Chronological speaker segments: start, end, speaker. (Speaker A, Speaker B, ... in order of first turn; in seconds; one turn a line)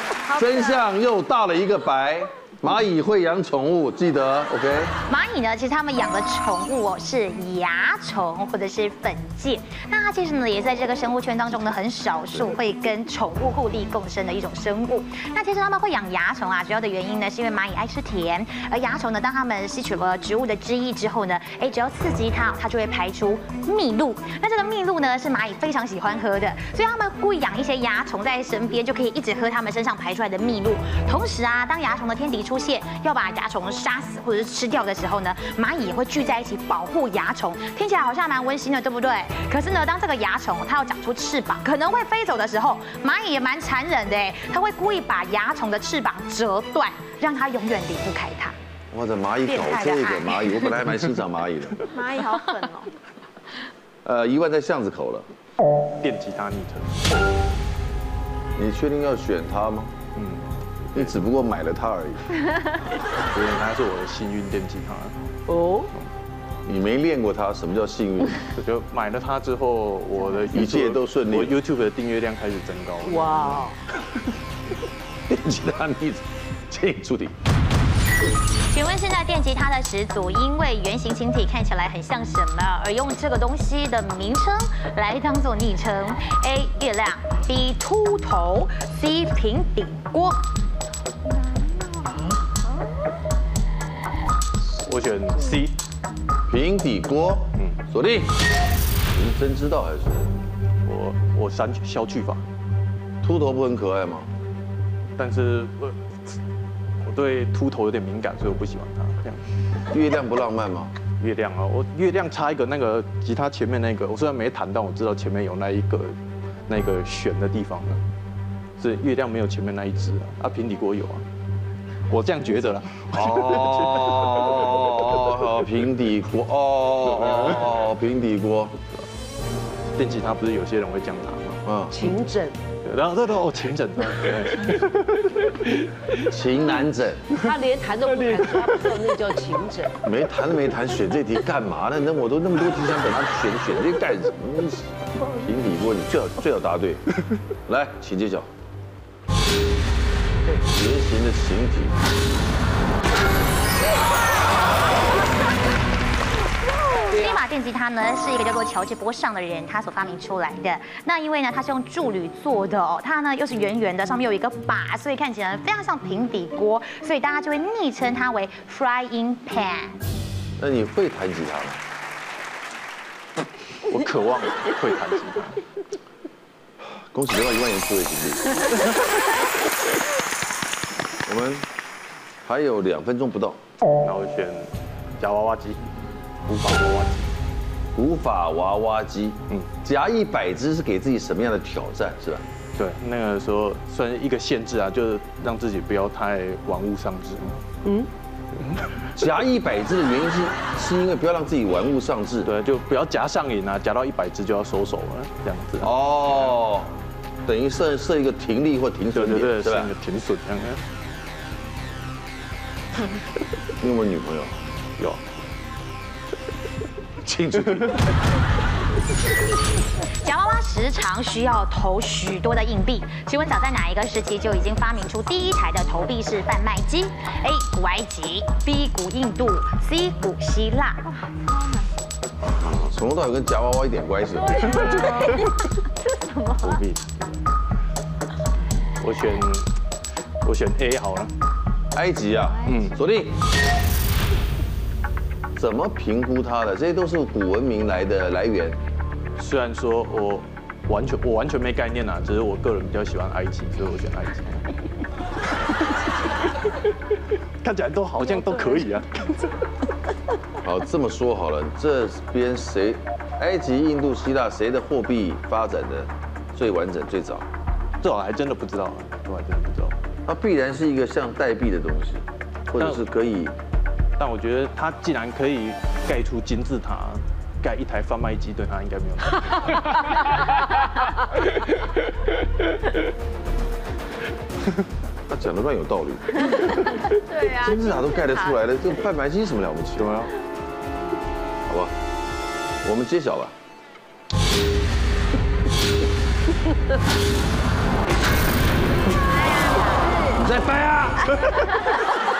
Speaker A: 0.3-5.0
Speaker B: 0.3-0.8
Speaker C: 5.1-48.5
Speaker A: 48.9-51.9
Speaker C: 49.5-50.5
Speaker B: 51.9-52.9
Speaker A: 54.0-55.3
Speaker D: 56.0-57.2
Speaker A: 58.5-59.9
Speaker D: 60.1-61.1
Speaker A: 60.9-62.3
Speaker D: 63.3-65.2
Speaker E: 65.5-65.9
Speaker A: 66.6-68.5
Speaker D: 68.5-73.7
Speaker A: 70.5-71.6
Speaker E: 73.0-73.7
Speaker A: 75.3-77.3
Speaker C: 78.7-90.5
Speaker B: 91.8-92.2
Speaker D: 94.7-95.8
Speaker A: 96.5-98.4
Speaker A: 99.1-100.3
Speaker D: 100.8-102.4
Speaker A: 103.2-104.3
Speaker D: 105.2-106.4
Speaker D: 107.0-109.5
Speaker A: 109.9-110.9
Speaker D: 111.2-116.2
Speaker D: 116.7-118.0
Speaker D: 118.8-121.2
Speaker D: 122.1-125.3
Speaker A: 123.1-128.8
Speaker D: 127.2-127.7
Speaker D: 129.9-131.6
Speaker A: 131.7-131.9
Speaker E: 131.9-132.6
Speaker D: 132.8-135.9
Speaker A: 136.3-137.3
Speaker E: 137.3-140.0
Speaker A: 140.0-147.1
Speaker A: 147.7-148.5
Speaker A: 150.4-152.0
Speaker E: 157.1-157.4
Speaker C: 157.1-170.0
Speaker A: 170.6-171.8
Speaker D: 173.9-175.6
Speaker A: 176.9-178.7
Speaker A: 181.2-181.7
Speaker A: 182.4-183.6
Speaker D: 184.0-185.9
Speaker D: 186.4-187.3
Speaker A: 187.9-192.4
Speaker D: 192.8-197.6
Speaker D: 198.6-198.9
Speaker A: 199.1-202.5
Speaker D: 202.4-205.9
Speaker A: 205.8-209.9
Speaker D: 209.1-210.8
Speaker A: 213.8-214.6
Speaker A: 217.2-218.1
Speaker C: 220.2-231.0
Speaker B: 231.1-231.9
Speaker A: 232.6-234.9
Speaker B: 234.4-235.4
Speaker D: 234.8-235.4
Speaker B: 236.0-236.8
Speaker D: 236.6-237.4
Speaker D: 239.0-239.7
Speaker D: 240.4-241.3
Speaker A: 241.9-243.4
Speaker D: 242.7-242.9
Speaker A: 245.6-248.8
Speaker D: 249.4-254.6
Speaker D: 257.6-259.6
Speaker A: 260.6-267.5
Speaker D: 268.0-270.0
Speaker A: 270.3-273.6
Speaker D: 274.2-280.1
Speaker A: 285.3-287.0
Speaker B: 287.3-288.6
Speaker A: 287.6-290.2
Speaker D: 290.0-290.3
Speaker A: 291.7-291.9
Speaker A: 292.8-293.5
Speaker C: 299.3-300.3
Speaker A: 300.3-301.7